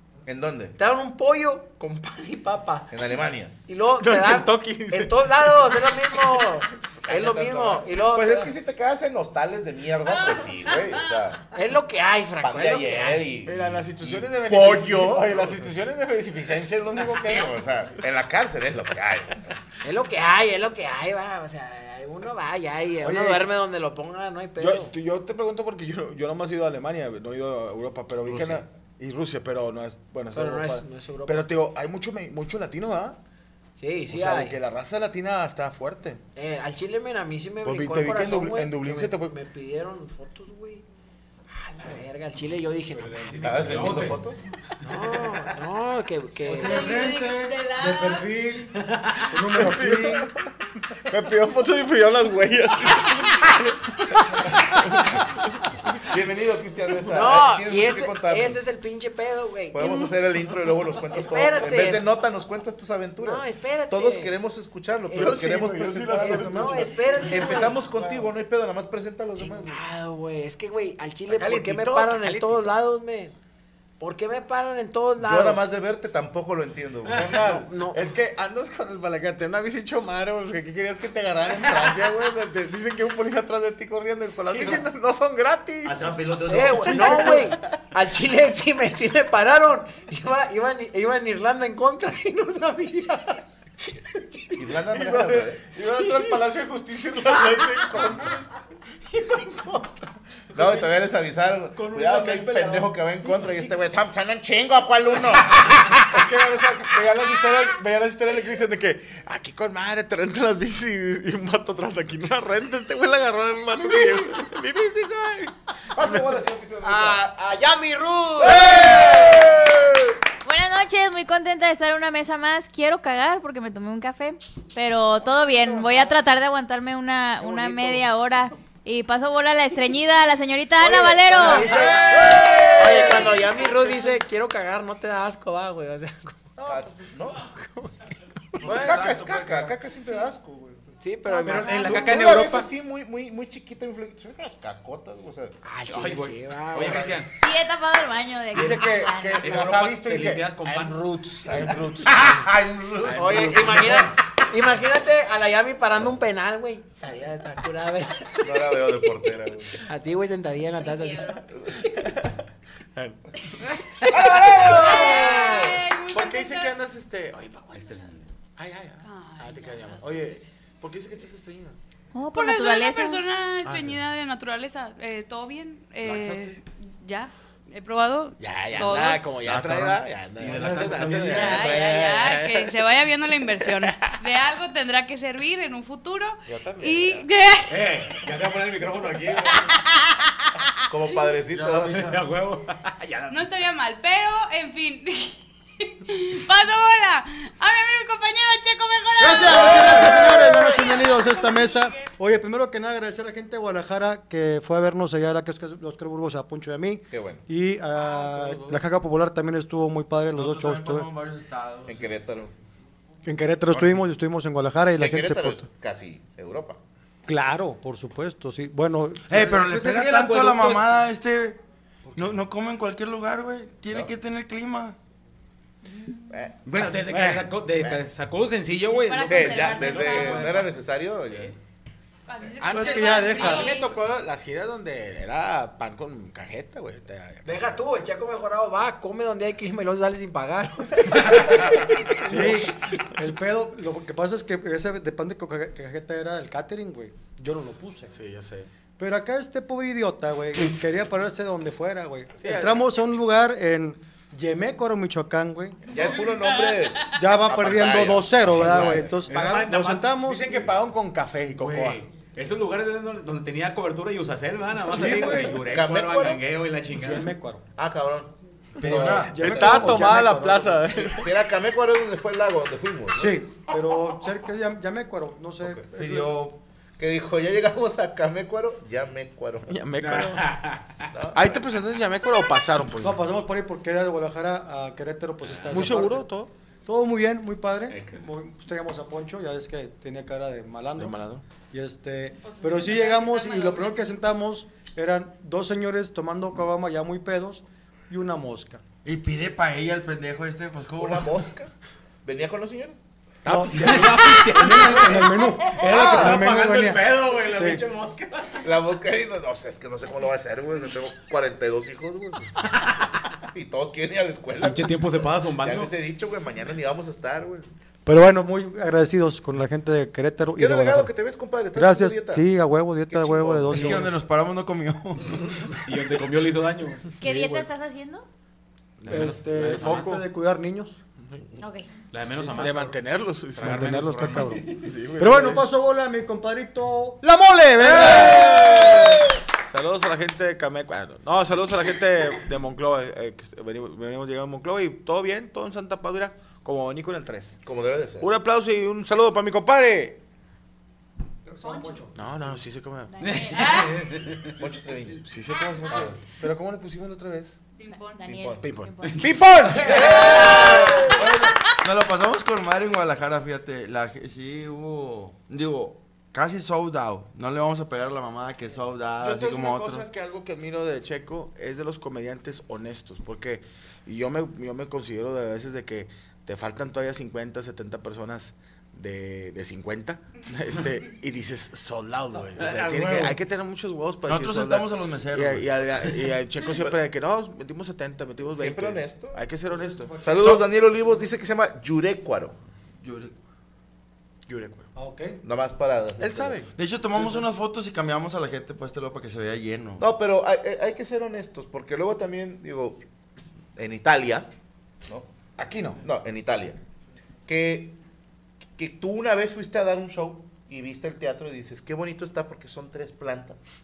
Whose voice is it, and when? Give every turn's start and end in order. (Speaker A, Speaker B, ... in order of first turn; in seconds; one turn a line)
Speaker A: 0.3-0.8
Speaker B: 0.8-2.9
Speaker A: 2.9-3.5
Speaker B: 3.7-8.5
Speaker C: 4.0-6.4
Speaker C: 7.1-7.8
Speaker A: 8.0-11.4
Speaker B: 11.5-13.3
Speaker A: 12.4-15.7
Speaker C: 13.4-17.5
Speaker A: 17.0-19.6
Speaker B: 19.8-24.9
Speaker C: 23.0-23.5
Speaker C: 24.6-33.2
Speaker A: 28.2-28.6
Speaker B: 30.3-31.6
Speaker B: 33.8-34.6
Speaker C: 34.1-36.2
Speaker B: 36.4-40.9
Speaker C: 37.6-39.4
Speaker B: 41.5-43.2
Speaker D: 43.0-44.2
Speaker A: 43.4-44.4
Speaker C: 43.7-44.0
Speaker B: 44.8-47.0
Speaker E: 46.5-48.7
Speaker F: 46.5-48.4
Speaker D: 48.8-49.2
Speaker E: 49.3-50.3
Speaker C: 49.5-50.5
Speaker C: 51.1-55.2
Speaker A: 56.0-58.6
Speaker B: 57.1-60.1
Speaker A: 59.7-69.8
Speaker B: 61.2-62.0
Speaker B: 63.2-64.3
Speaker B: 65.1-68.2
Speaker C: 65.2-67.7
Speaker B: 69.4-73.3
Speaker C: 71.3-72.7
Speaker B: 74.0-75.6
Speaker A: 75.2-77.4
Speaker C: 77.1-86.2
Speaker B: 77.4-78.0
Speaker D: 85.8-87.3
Speaker B: 86.5-94.7
Speaker C: 86.9-87.7
Speaker A: 94.5-95.6
Speaker C: 94.9-98.5
Speaker B: 95.9-96.3
Speaker B: 99.1-100.0
Speaker A: 100.5-105.9
Speaker D: 101.8-103.7
Speaker C: 105.9-116.2
Speaker A: 113.8-114.4
Speaker A: 115.9-117.2
Speaker B: 116.8-119.4
Speaker A: 118.4-119.9
Speaker G: 120.4-131.8
Speaker B: 127.4-128.1
Speaker B: 130.8-136.6
Speaker C: 131.3-133.3
Speaker A: 132.2-133.2
Speaker A: 136.7-137.4
Speaker B: 137.5-138.8
Speaker C: 138.6-139.7
Speaker A: 138.6-140.9
Speaker H: 138.8-139.2
Speaker B: 141.0-142.1
Speaker D: 141.4-142.7
Speaker A: 141.8-145.6
Speaker B: 145.6-147.2
Speaker D: 145.9-147.3
Speaker G: 147.4-149.6
Speaker C: 148.5-152.5
Speaker D: 149.4-151.0
Speaker A: 151.5-154.1
Speaker C: 153.0-154.1
Speaker B: 153.2-158.9
Speaker A: 158.4-159.7
Speaker B: 159.8-161.4
Speaker G: 160.8-161.4
Speaker C: 161.9-162.4
Speaker C: 163.0-163.2
Speaker C: 164.1-165.6
Speaker A: 164.1-165.2
Speaker F: 164.6-166.8
Speaker B: 164.9-165.3
Speaker C: 166.1-168.0
Speaker D: 167.8-168.3
Speaker C: 168.6-171.8
Speaker F: 169.0-170.3
Speaker G: 172.1-173.2
Speaker F: 172.3-179.4
Speaker C: 173.7-174.0
Speaker C: 176.1-176.6
Speaker C: 178.4-182.7
Speaker D: 179.4-181.2
Speaker E: 180.4-181.8
Speaker F: 181.3-187.9
Speaker C: 183.7-184.2
Speaker C: 186.5-187.2
Speaker D: 187.7-189.7
Speaker F: 189.5-190.5
Speaker A: 190.9-192.2
Speaker D: 192.0-193.6
Speaker F: 193.3-202.1
Speaker E: 199.2-211.1
Speaker A: 207.1-207.4
Speaker C: 207.9-208.8
Speaker H: 210.3-212.1
Speaker A: 211.9-212.6
Speaker E: 213.2-215.7
Speaker A: 215.0-216.8
Speaker E: 217.3-219.7
Speaker H: 219.3-221.6
Speaker D: 219.5-220.9
Speaker C: 222.1-222.4
Speaker H: 222.2-225.0
Speaker A: 226.3-226.8
Speaker D: 226.7-230.8
Speaker E: 227.1-227.5
Speaker A: 227.8-228.0
Speaker G: 228.9-230.5
Speaker A: 229.2-231.5
Speaker F: 232.3-233.9
Speaker C: 232.6-237.8
Speaker E: 232.7-233.8
Speaker B: 237.4-241.8
Speaker E: 242.2-248.2
Speaker C: 242.2-242.7
Speaker C: 248.1-248.7
Speaker E: 249.0-255.9
Speaker C: 252.4-252.9
Speaker A: 255.9-259.2
Speaker F: 255.9-257.1
Speaker E: 257.1-260.7
Speaker D: 259.3-260.2
Speaker C: 260.2-262.0
Speaker D: 261.6-267.3
Speaker E: 264.8-265.6
Speaker A: 265.6-266.4
Speaker E: 266.9-267.6
Speaker A: 267.8-270.2
Speaker C: 268.8-271.3
Speaker E: 268.8-270.9
Speaker H: 268.8-269.4
Speaker A: 271.0-273.4
Speaker E: 273.1-276.5
Speaker A: 275.6-275.9
Speaker H: 276.0-276.4
Speaker A: 277.0-279.8
Speaker C: 279.7-280.4
Speaker D: 280.0-281.1
Speaker A: 281.1-281.6
Speaker C: 281.3-283.3
Speaker E: 283.0-286.3
Speaker D: 285.4-286.0
Speaker C: 285.7-286.5
Speaker E: 286.9-291.2
Speaker D: 287.9-288.2
Speaker C: 290.9-291.4
Speaker E: 291.7-298.8
Speaker F: 292.4-294.0
Speaker H: 299.0-301.3
Speaker A: 301.0-301.7
Speaker A: 302.2-303.0
Speaker E: 303.4-307.8
Speaker C: 303.5-304.4
Speaker D: 303.5-308.7
Speaker A: 305.9-306.4
Speaker A: 308.6-312.5
Speaker A: 313.5-314.9
Speaker D: 314.6-315.9
Speaker A: 315.6-317.7
Speaker E: 318.1-321.1
Speaker A: 320.6-322.5
Speaker E: 321.7-324.2
Speaker A: 323.1-324.0
Speaker H: 323.7-325.3
Speaker D: 325.8-327.1
Speaker G: 327.2-328.3
Speaker E: 327.2-327.7
Speaker D: 329.0-330.2
Speaker C: 329.1-330.2
Speaker E: 329.1-331.0
Speaker G: 331.6-331.9
Speaker D: 332.1-333.0
Speaker E: 332.3-332.9
Speaker C: 332.5-333.8
Speaker D: 333.6-334.8
Speaker E: 333.6-339.2
Speaker C: 334.7-335.7
Speaker C: 337.8-347.6
Speaker A: 347.6-348.3
Speaker C: 348.2-350.2
Speaker E: 351.5-352.6
Speaker F: 351.6-352.0
Speaker C: 352.1-353.4
Speaker G: 353.1-353.8
Speaker D: 353.2-354.6
Speaker F: 353.5-354.1
Speaker A: 354.6-355.2
Speaker C: 355.2-357.6
Speaker A: 355.9-356.1
Speaker F: 357.8-358.3
Speaker G: 357.9-359.3
Speaker A: 358.2-358.6
Speaker C: 358.6-361.2
Speaker E: 359.8-360.1
Speaker A: 360.0-360.9
Speaker H: 361.2-370.1
Speaker C: 369.2-390.1
Speaker D: 382.6-383.4
Speaker H: 384.3-385.7
Speaker A: 388.5-389.4
Speaker E: 389.7-390.6
Speaker A: 390.2-392.6
Speaker H: 393.0-393.4
Speaker C: 394.5-394.9
Speaker E: 394.9-395.4
Speaker A: 395.4-396.6
Speaker C: 396.2-397.4
Speaker H: 396.7-400.0
Speaker A: 400.0-403.0
Speaker A: 403.8-404.5
Speaker C: 405.6-406.0
Speaker A: 406.0-406.8
Speaker A: 407.5-408.0
Speaker A: 408.8-413.6